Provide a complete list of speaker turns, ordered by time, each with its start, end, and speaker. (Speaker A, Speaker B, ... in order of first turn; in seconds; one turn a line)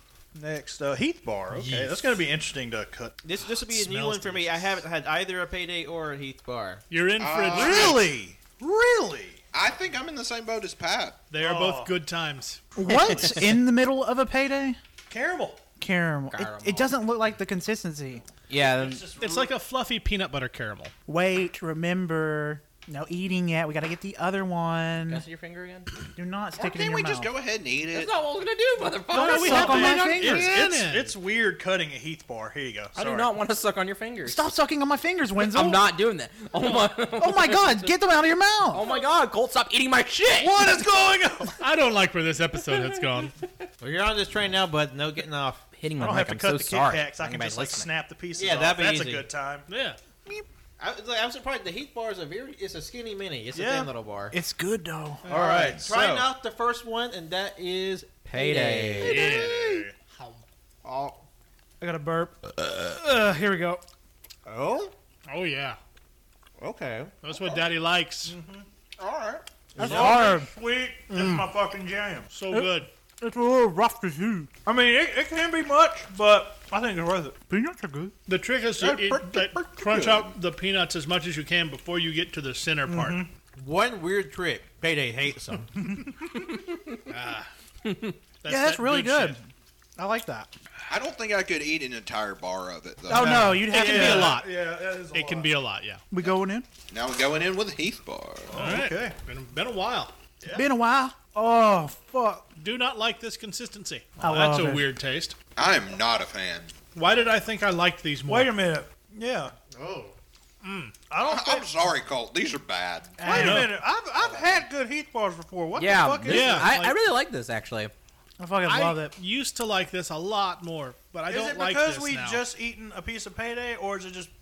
Speaker A: 0.3-3.2
Speaker B: 1.5-1.9
Speaker C: 3.2-6.8
Speaker B: 3.7-4.6
Speaker B: 6.9-8.0
Speaker D: 7.2-8.1
Speaker A: 7.5-9.4
Speaker D: 9.5-11.2
Speaker B: 11.3-12.7
Speaker A: 11.3-12.0
Speaker E: 12.8-14.8
Speaker A: 12.8-13.6
Speaker A: 15.1-15.6
Speaker E: 15.8-18.2
Speaker F: 16.3-16.9
Speaker F: 18.5-19.1
Speaker A: 18.5-19.5
Speaker B: 19.2-20.9
Speaker E: 21.1-25.2
Speaker F: 25.1-25.9
Speaker E: 26.1-27.3
Speaker D: 26.6-28.1
Speaker F: 27.9-29.9
Speaker E: 29.1-30.6
Speaker B: 29.1-31.1
Speaker A: 29.1-33.3
Speaker F: 32.9-34.5
Speaker E: 34.2-35.9
Speaker F: 35.4-37.9
Speaker E: 37.1-38.9
Speaker F: 38.7-40.6
Speaker A: 40.3-41.6
Speaker B: 41.6-43.3
Speaker C: 43.8-45.6
Speaker F: 45.8-47.9
Speaker A: 46.0-49.7
Speaker C: 48.4-49.3
Speaker B: 49.7-50.0
Speaker C: 50.8-54.4
Speaker A: 53.5-53.9
Speaker E: 54.3-55.2
Speaker A: 55.2-56.3
Speaker C: 55.3-59.3
Speaker F: 58.4-59.2
Speaker E: 59.0-59.8
Speaker B: 59.0-60.4
Speaker A: 59.4-59.8
Speaker C: 60.8-61.2
Speaker E: 61.8-63.8
Speaker C: 64.5-64.9
Speaker B: 65.2-65.8
Speaker C: 66.6-67.1
Speaker B: 67.2-68.3
Speaker A: 68.2-68.7
Speaker D: 69.0-69.4
Speaker C: 69.7-70.1
Speaker E: 69.8-70.5
Speaker A: 69.8-72.3
Speaker B: 71.1-71.5
Speaker B: 72.3-72.9
Speaker E: 72.5-74.5
Speaker A: 74.6-77.4
Speaker E: 77.5-78.1
Speaker B: 78.3-83.2
Speaker D: 78.8-80.3
Speaker A: 82.9-83.3
Speaker C: 83.5-85.7
Speaker A: 85.8-86.1
Speaker B: 87.1-87.5
Speaker B: 88.4-89.3
Speaker E: 88.5-89.4
Speaker E: 90.0-90.5
Speaker D: 90.9-93.5
Speaker E: 93.1-94.4
Speaker A: 93.1-95.5
Speaker B: 93.1-94.5
Speaker B: 95.1-96.0
Speaker E: 96.1-96.7
Speaker D: 96.9-98.5
Speaker A: 98.5-99.1
Speaker B: 98.5-100.1
Speaker E: 100.5-102.5
Speaker B: 102.6-105.3
Speaker E: 104.2-104.8
Speaker D: 105.5-106.7
Speaker B: 106.9-108.5
Speaker A: 108.3-109.5
Speaker C: 109.7-110.1
Speaker B: 110.6-110.9
Speaker A: 111.1-111.7
Speaker D: 111.2-113.2
Speaker E: 113.2-113.7
Speaker A: 113.2-116.7
Speaker B: 113.3-113.7
Speaker F: 115.8-117.9
Speaker B: 116.2-117.0
Speaker E: 118.4-119.2
Speaker B: 118.6-122.4
Speaker A: 121.3-124.3